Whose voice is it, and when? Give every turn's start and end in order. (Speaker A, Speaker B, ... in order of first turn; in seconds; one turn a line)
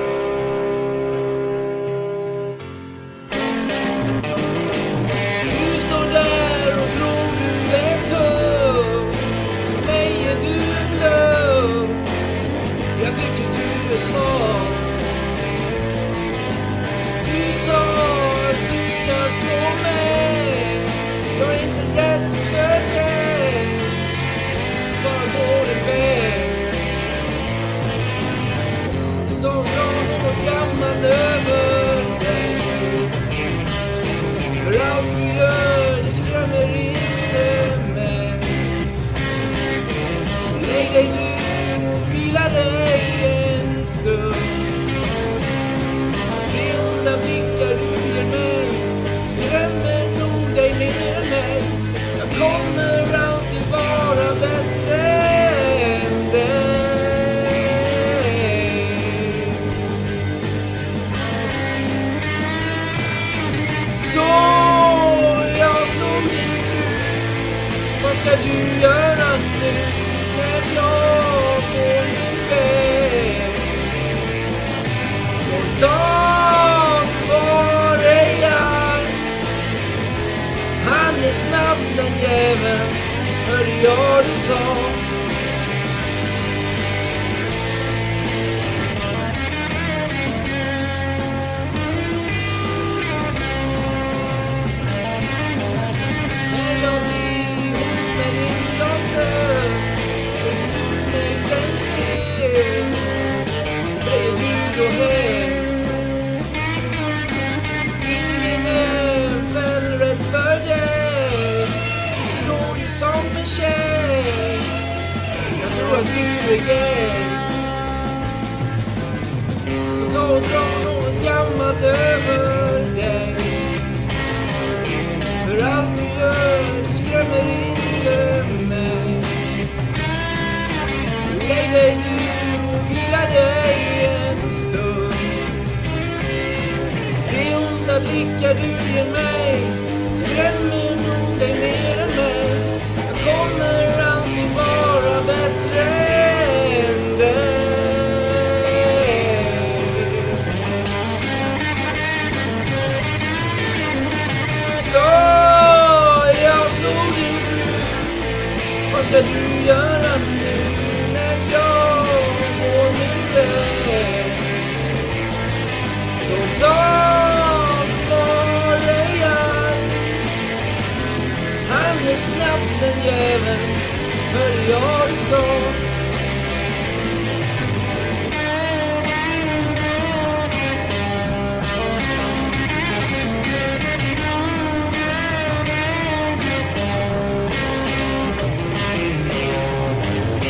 Speaker A: 5.5-12.1
Speaker A: 13.0-14.9
Speaker A: 17.2-24.0
Speaker A: 24.8-26.6
Speaker A: 29.2-33.1
Speaker A: 34.6-38.7
Speaker A: 40.5-44.8
Speaker A: 46.5-59.7
Speaker A: 64.0-73.8
Speaker A: 75.4-79.2
Speaker A: 80.8-85.1
Speaker A: 96.5-102.9
Speaker A: 103.9-105.7
Speaker A: 108.0-114.7
Speaker A: 115.6-117.5
Speaker A: 120.0-123.7
Speaker A: 125.4-129.3
Speaker A: 131.3-135.5
Speaker A: 137.3-148.4
Speaker A: 149.0-150.3
Speaker A: 154.8-158.2
Speaker A: 158.9-164.4
Speaker A: 166.2-170.1
Speaker A: 171.7-175.8